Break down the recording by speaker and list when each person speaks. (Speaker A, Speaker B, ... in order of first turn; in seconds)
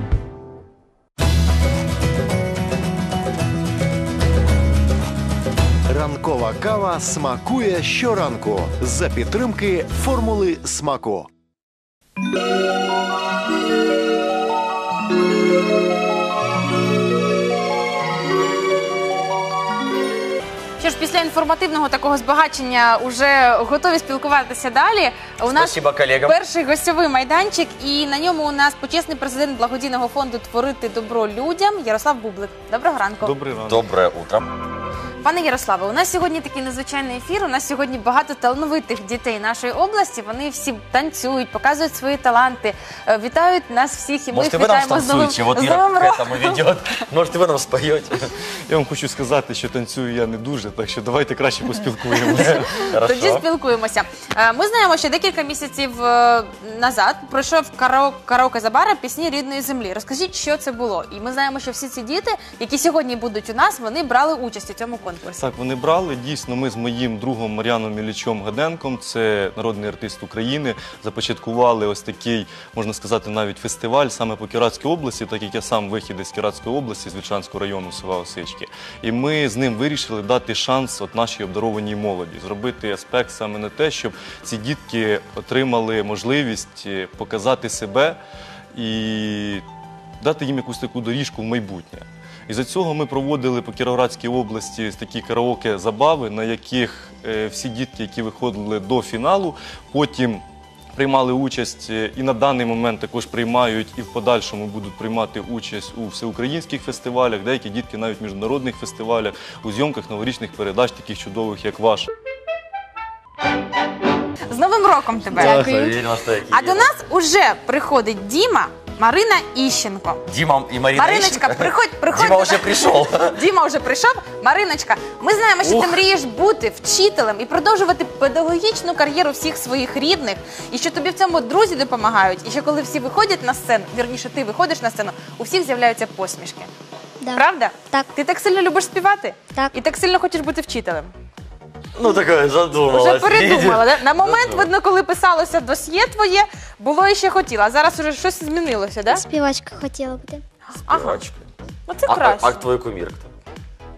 Speaker A: 5.9-11.3
Speaker B: 20.8-33.3, 35.2-46.6, 52.3-65.5, 114.5-115.9, 116.5-120.2, 120.9-136.7, 137.3-141.1, 142.9-149.2, 150.8-151.2, 151.9-152.7
Speaker C: 25.5-26.4, 33.6-34.5, 44.3-48.3, 52.4-53.4, 115.3-116.9, 120.3-123.4, 125.6-126.0, 141.9-144.7, 150.9-151.5, 152.1-153.3
Speaker D: 33.2-33.8, 48.7-52.9, 65.4-88.2, 88.7-89.6, 90.2-112.1
Speaker E: 115.4-115.9, 137.2-138.1, 149.1-150.4